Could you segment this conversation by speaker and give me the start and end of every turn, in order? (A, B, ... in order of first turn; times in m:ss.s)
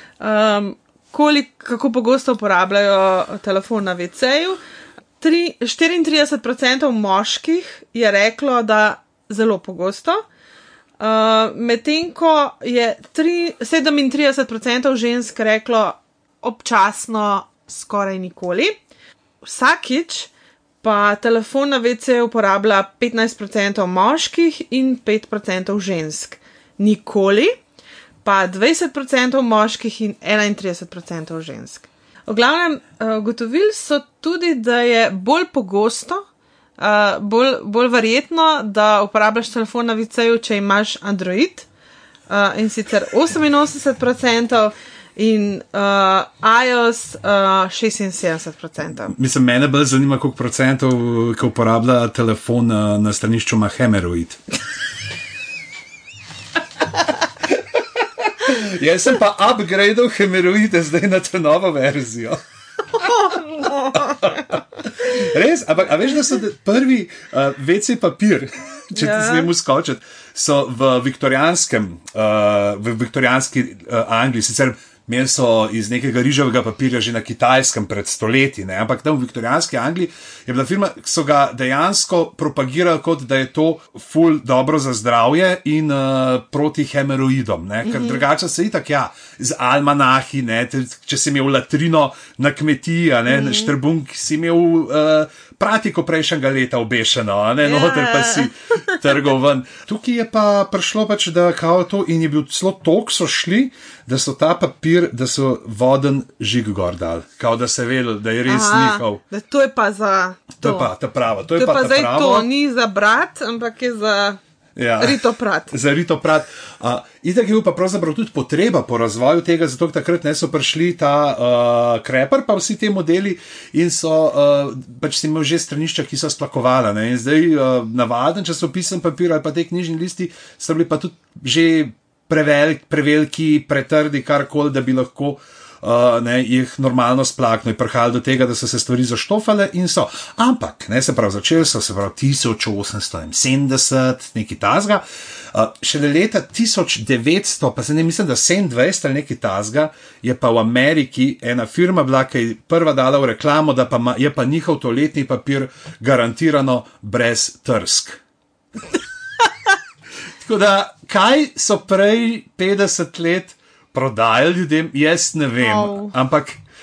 0:00.2-0:04.6 A
0:05.2-0:10.2 A
0:11.0-0:18.8 A
0:19.4-0:20.3 A
0:20.8-0:27.5 A
0:28.2-0:36.2 A
0:36.8-0:41.6 A
0:42.3-0:49.1 A
0:49.1-0:54.4 B
0:58.2-1:02.4 B
1:03.0-1:03.4 B
1:03.0-1:04.1 A
1:03.9-1:49.2 B
1:09.0-1:09.5 A
1:27.8-1:28.2 A
1:33.3-1:33.7 A
1:37.6-1:39.0 A
1:48.5-1:50.9 A
1:50.6-1:52.5 B
1:51.5-1:54.4 A
1:54.8-2:38.2 B
1:55.0-1:55.7 A
2:40.4-2:46.6 B
2:45.6-2:46.1 A